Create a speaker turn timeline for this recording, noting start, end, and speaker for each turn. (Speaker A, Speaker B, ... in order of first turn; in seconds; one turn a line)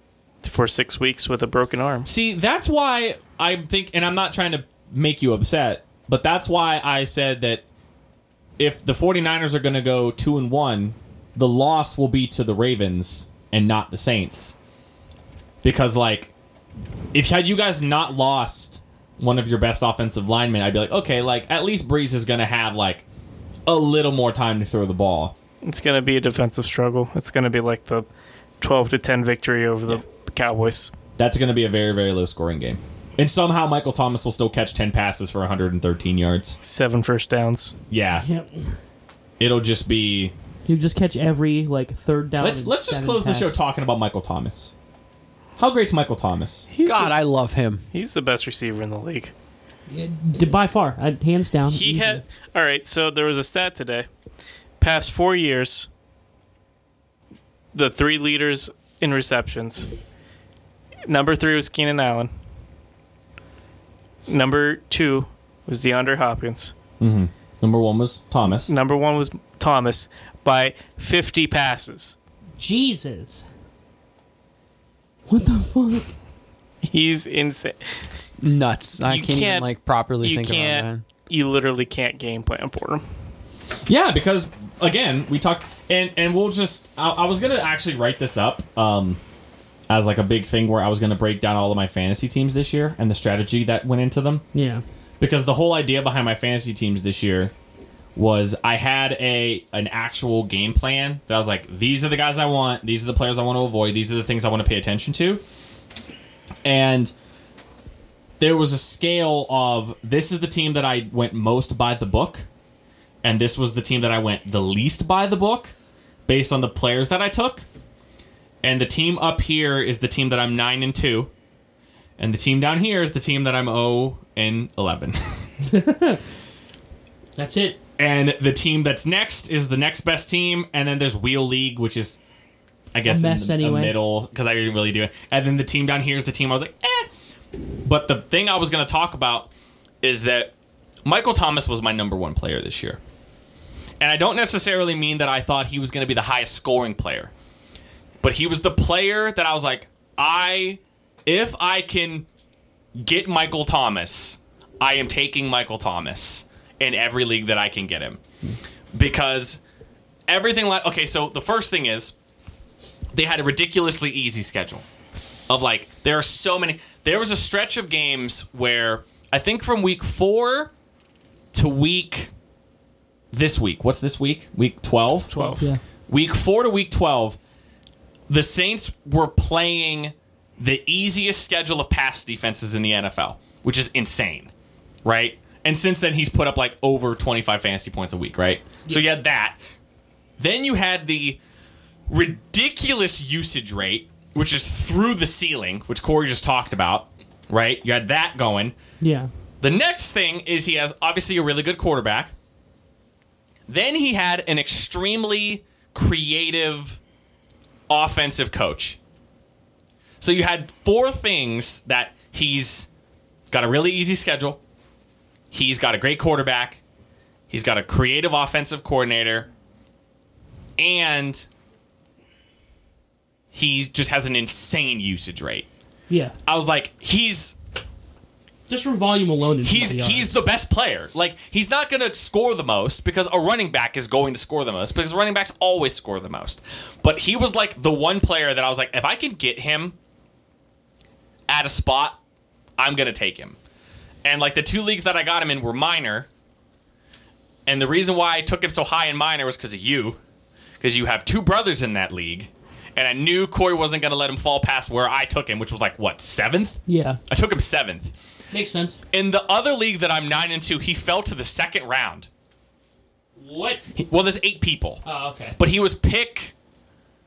Speaker A: 0.4-2.1
Speaker B: 2.1-7.6
Speaker B: 8.6-14.6
Speaker B: 15.6-16.3
Speaker B: 17.1-23.1
Speaker B: 23.7-25.3
Speaker A: 25.6-28.1
Speaker A: 28.6-30.9
Speaker B: 31.2-36.6
Speaker A: 36.6-37.8
Speaker B: 37.9-38.3
Speaker C: 38.2-38.7
Speaker B: 39.4-40.3
Speaker C: 40.7-43.5
Speaker B: 42.4-44.7
Speaker B: 45.6-46.7
Speaker A: 46.7-47.1
Speaker D: 46.8-47.8
Speaker A: 47.9-49.3
Speaker C: 49.9-52.2
Speaker A: 51.7-54.1
Speaker A: 54.8-55.9
Speaker A: 57.7-59.9
Speaker A: 61.1-62.3
Speaker A: 64.3-66.7
Speaker B: 67.0-68.7
Speaker A: 68.7-72.2
Speaker C: 72.6-73.5
Speaker C: 75.3-76.1
Speaker A: 76.8-78.0
Speaker D: 78.2-81.0
Speaker A: 79.0-79.7
Speaker A: 80.2-83.0
Speaker B: 83.9-89.2
Speaker B: 89.9-94.4
Speaker C: 94.5-94.8
Speaker B: 95.2-97.5
Speaker B: 98.2-105.4
Speaker B: 106.7-107.1
Speaker B: 108.4-112.5
Speaker B: 113.2-115.7
Speaker B: 116.3-117.7
Speaker B: 118.6-121.3
Speaker B: 122.2-125.5
Speaker C: 125.7-126.2
Speaker C: 127.4-127.8
Speaker B: 128.0-132.2
Speaker B: 132.9-137.1
Speaker C: 133.1-134.0
Speaker B: 137.8-139.5
Speaker B: 140.0-140.5
Speaker B: 141.1-143.0
Speaker B: 144.0-147.3
Speaker B: 148.2-152.3
Speaker B: 153.0-158.2
Speaker B: 158.9-159.6
Speaker B: 160.3-162.1
Speaker B: 163.1-164.9
Speaker B: 165.5-170.7
Speaker B: 171.5-172.3
Speaker B: 173.3-175.6
Speaker A: 175.3-175.7
Speaker C: 175.4-175.8
Speaker B: 176.1-177.4
Speaker B: 178.3-184.5
Speaker B: 185.1-189.6
Speaker B: 190.4-191.4
Speaker B: 192.1-198.8
Speaker C: 199.0-199.3
Speaker B: 199.6-202.3
Speaker B: 203.7-207.0
Speaker B: 207.9-209.0
Speaker B: 210.2-212.9
Speaker B: 213.5-214.6
Speaker B: 215.5-216.8
Speaker B: 217.5-219.5
Speaker B: 220.8-221.5
Speaker B: 223.5-225.7
Speaker B: 226.5-227.6
Speaker C: 228.7-230.4
Speaker B: 229.6-240.0
Speaker B: 241.5-242.2
Speaker B: 242.8-243.6
Speaker B: 244.2-246.3
Speaker B: 247.7-250.2
Speaker B: 250.8-258.1
Speaker C: 256.9-257.2
Speaker C: 258.5-259.0
Speaker B: 259.1-262.3
Speaker C: 263.4-263.8
Speaker B: 264.0-265.0
Speaker C: 265.1-265.6
Speaker B: 265.6-266.5